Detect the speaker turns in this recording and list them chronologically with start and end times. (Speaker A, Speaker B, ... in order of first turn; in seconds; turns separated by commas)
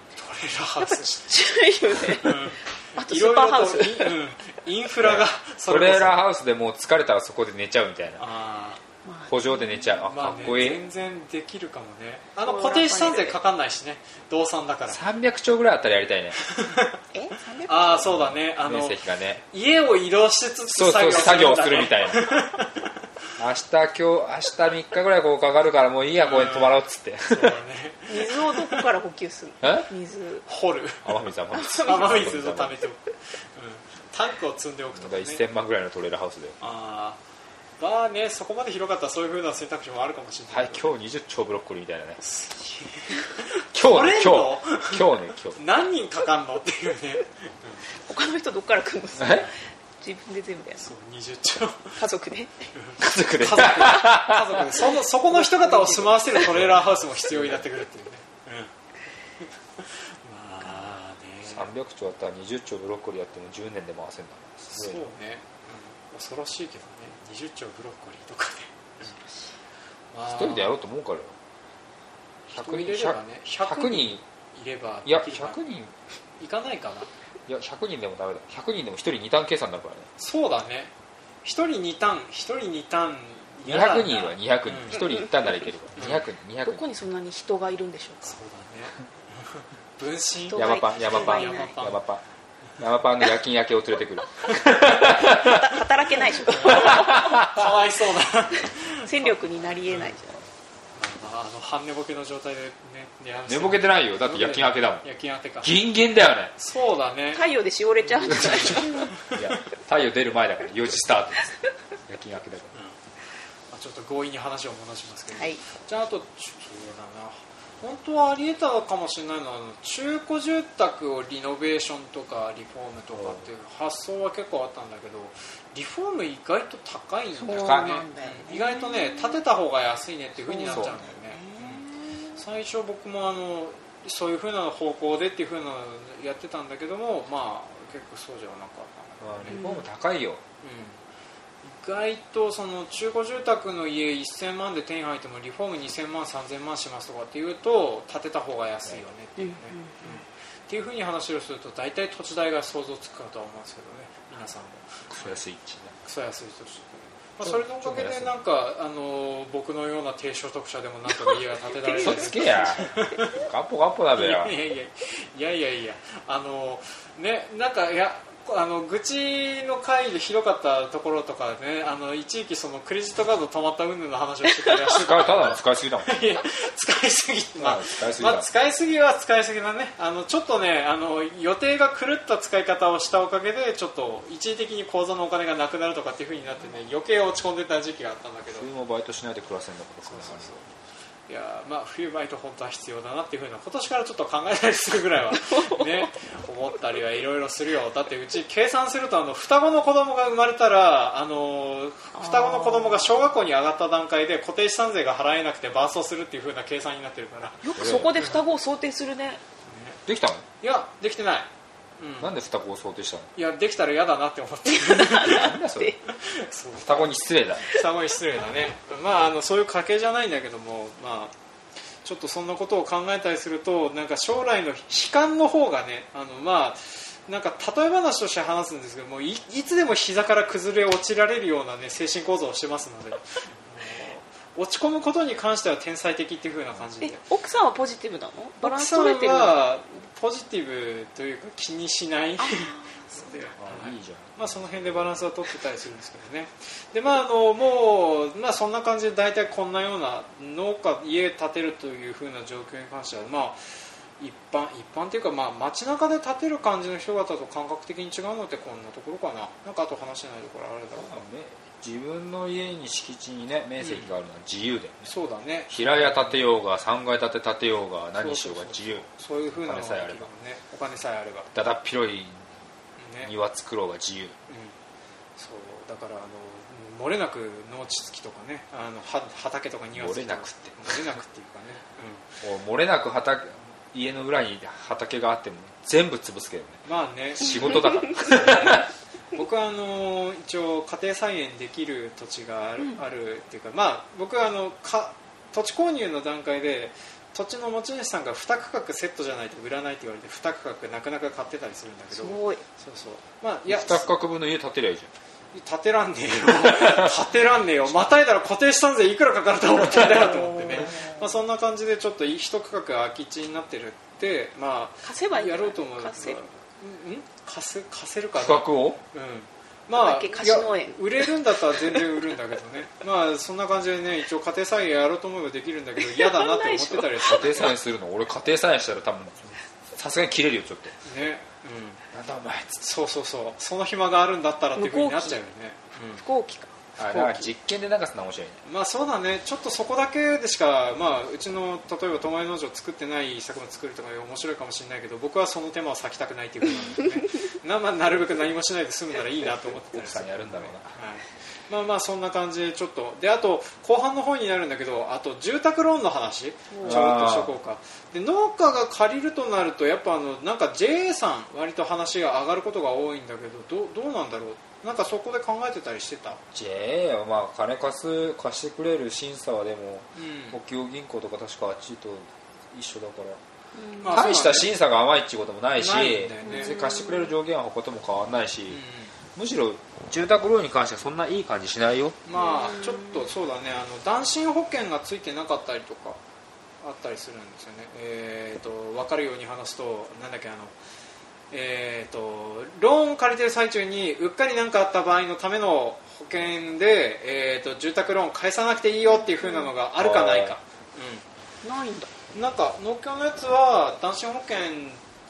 Speaker A: 0.1-1.4, Speaker B: 0.8-4.2, Speaker A: 2.1-6.2, Speaker C: 5.0-8.3, Speaker A: 8.2-8.8, Speaker B: 9.0-10.0, Speaker C: 9.3-10.8, Speaker A: 10.0-15.0, Speaker B: 12.4-13.4, Speaker C: 14.9-16.4, Speaker A: 16.4-17.0, Speaker B: 17.1-18.1, Speaker A: 17.7-22.9, Speaker C: 18.1-19.4, Speaker C: 20.7-22.3, Speaker C: 23.4-27.6, Speaker A: 26.2-28.8, Speaker B: 28.1-30.4, Speaker C: 29.6-29.9, Speaker A: 30.5-35.4, Speaker C: 31.0-32.8, Speaker B: 31.5-32.1, Speaker C: 34.9-36.6, Speaker A: 36.6-37.2, Speaker A: 37.8-40.9, Speaker C: 40.5-42.2, Speaker A: 42.2-47.9, Speaker C: 43.7-45.6, Speaker B: 47.9-50.9, Speaker C: 49.2-49.5, Speaker A: 50.8-52.0, Speaker B: 52.0-52.6, Speaker A: 52.7-58.7, Speaker C: 53.0-54.7, Speaker B: 55.3-56.5, Speaker C: 56.5-57.6, Speaker A: 59.8-61.7, Speaker C: 61.5-65.1, Speaker A: 64.7-69.1, Speaker A: 70.1-70.7, Speaker C: 70.2-71.3, Speaker A: 72.5-75.6, Speaker C: 72.5-74.2, Speaker C: 75.0-75.9, Speaker A: 76.4-77.1, Speaker C: 77.5-80.1, Speaker A: 80.2-80.9, Speaker A: 81.4-85.1, Speaker C: 83.6-86.8, Speaker A: 86.0-86.2, Speaker B: 86.6-88.4, Speaker A: 88.2-92.0, Speaker B: 90.5-91.8, Speaker C: 90.5-92.2, Speaker C: 92.8-95.8, Speaker B: 94.8-97.4, Speaker A: 96.4-99.3, Speaker C: 96.6-97.7, Speaker B: 98.6-100.4, Speaker A: 99.9-100.1, Speaker A: 100.9-105.8, Speaker C: 103.5-105.0, Speaker C: 105.6-106.5, Speaker A: 106.5-107.5, Speaker B: 107.3-109.2, Speaker A: 108.1-109.5, Speaker C: 108.2-112.7, Speaker A: 113.7-139.7, Speaker B: 115.3-115.6, Speaker C: 123.1-123.5, Speaker B: 127.4-129.4, Speaker C: 127.5-128.0, Speaker B: 130.4-132.4, Speaker C: 130.7-131.0, Speaker C: 139.2-140.4, Speaker B: 139.5-139.8, Speaker A: 140.6-141.0, Speaker A: 141.6-155.4, Speaker B: 149.4-150.2, Speaker C: 155.1-155.9, Speaker A: 156.0-163.4, Speaker C: 157.4-158.3, Speaker B: 161.2-162.7, Speaker C: 162.0-164.6, Speaker A: 164.1-188.7, Speaker C: 174.9-176.1, Speaker C: 177.6-178.5, Speaker C: 188.5-190.6, Speaker A: 190.0-190.7, Speaker A: 191.3-208.4, Speaker B: 195.4-196.1, Speaker B: 202.1-203.2, Speaker B: 207.6-209.4, Speaker C: 207.8-208.2, Speaker A: 209.7-210.0, Speaker C: 210.1-210.4, Speaker A: 210.6-211.5, Speaker A: 212.0-212.3, Speaker C: 212.2-213.3, Speaker A: 213.3-215.5, Speaker B: 214.7-216.0, Speaker C: 215.2-216.0, Speaker A: 216.1-221.3, Speaker C: 216.8-217.8, Speaker A: 222.0-237.2, Speaker B: 237.0-239.7, Speaker A: 238.6-261.2, Speaker B: 242.4-243.5, Speaker C: 243.6-245.1, Speaker C: 260.9-265.1, Speaker A: 263.8-264.1, Speaker A: 265.1-266.5, Speaker C: 265.7-269.1, Speaker A: 268.2-271.5, Speaker C: 269.6-270.3, Speaker C: 271.5-272.5, Speaker A: 273.0-273.3, Speaker C: 273.2-274.4, Speaker A: 274.5-274.7, Speaker A: 275.4-282.3, Speaker C: 279.9-281.0, Speaker C: 282.4-286.8, Speaker A: 286.9-304.1, Speaker C: 287.4-288.9, Speaker B: 302.1-302.6, Speaker C: 303.7-305.1, Speaker A: 305.5-327.8, Speaker C: 306.6-307.1, Speaker B: 309.9-311.3, Speaker B: 315.0-316.4, Speaker C: 318.4-319.0, Speaker B: 319.9-321.3, Speaker B: 326.0-327.6, Speaker C: 327.3-330.9, Speaker A: 331.0-332.0, Speaker C: 332.1-332.8, Speaker A: 332.8-336.2, Speaker B: 334.8-335.4, Speaker B: 336.1-337.4, Speaker C: 337.0-338.6, Speaker A: 338.6-366.4, Speaker C: 349.9-350.9, Speaker B: 356.7-357.0, Speaker C: 356.8-357.6, Speaker C: 366.5-373.4, Speaker A: 370.1-370.6, Speaker B: 373.7-374.4, Speaker A: 374.0-374.7, Speaker C: 374.1-378.8, Speaker A: 375.8-376.8, Speaker B: 376.4-377.3, Speaker A: 378.7-379.1, Speaker C: 379.3-382.2, Speaker A: 382.2-386.2, Speaker B: 382.3-383.3, Speaker A: 386.8-390.7, Speaker A: 391.5-401.2, Speaker B: 399.1-399.7, Speaker C: 400.0-400.6, Speaker B: 401.6-402.1, Speaker A: 402.3-405.0